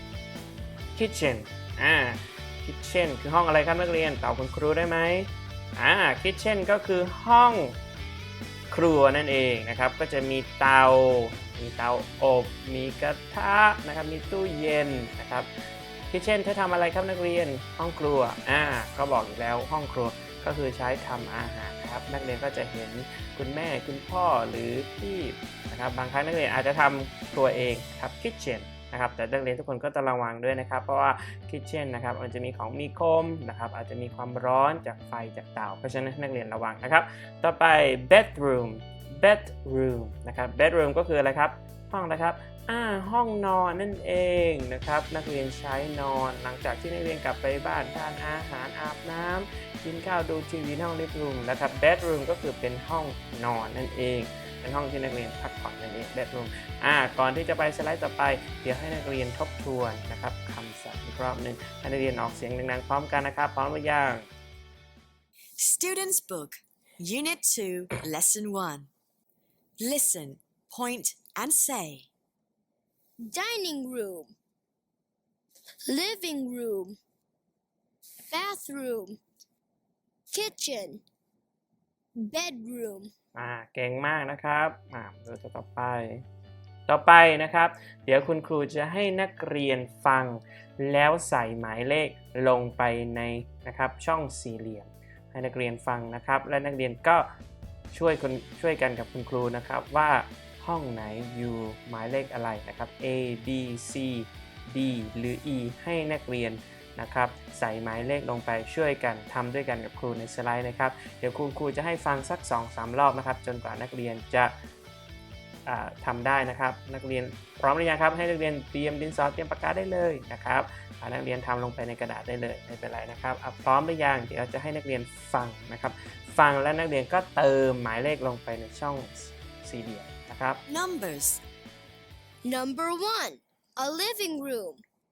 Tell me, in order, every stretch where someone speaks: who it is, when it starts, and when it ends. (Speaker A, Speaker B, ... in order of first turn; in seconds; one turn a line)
Speaker A: 0.9-7.7
Speaker A: 8.7-15.5
Speaker A: 16.1-64.3
Speaker B: 65.6-68.9
Speaker B: 69.8-72.1
Speaker C: 73.2-74.3
Speaker C: 75.9-77.0
Speaker C: 78.3-79.2
Speaker C: 80.3-81.0
Speaker C: 82.2-83.1
Speaker A: 83.3-86.2
Speaker A: 86.9-97.3
Speaker A: 97.9-114.5
Speaker A: 115.7-130.6
Speaker B: 130.7-131.4
Speaker C: 132.4-134.8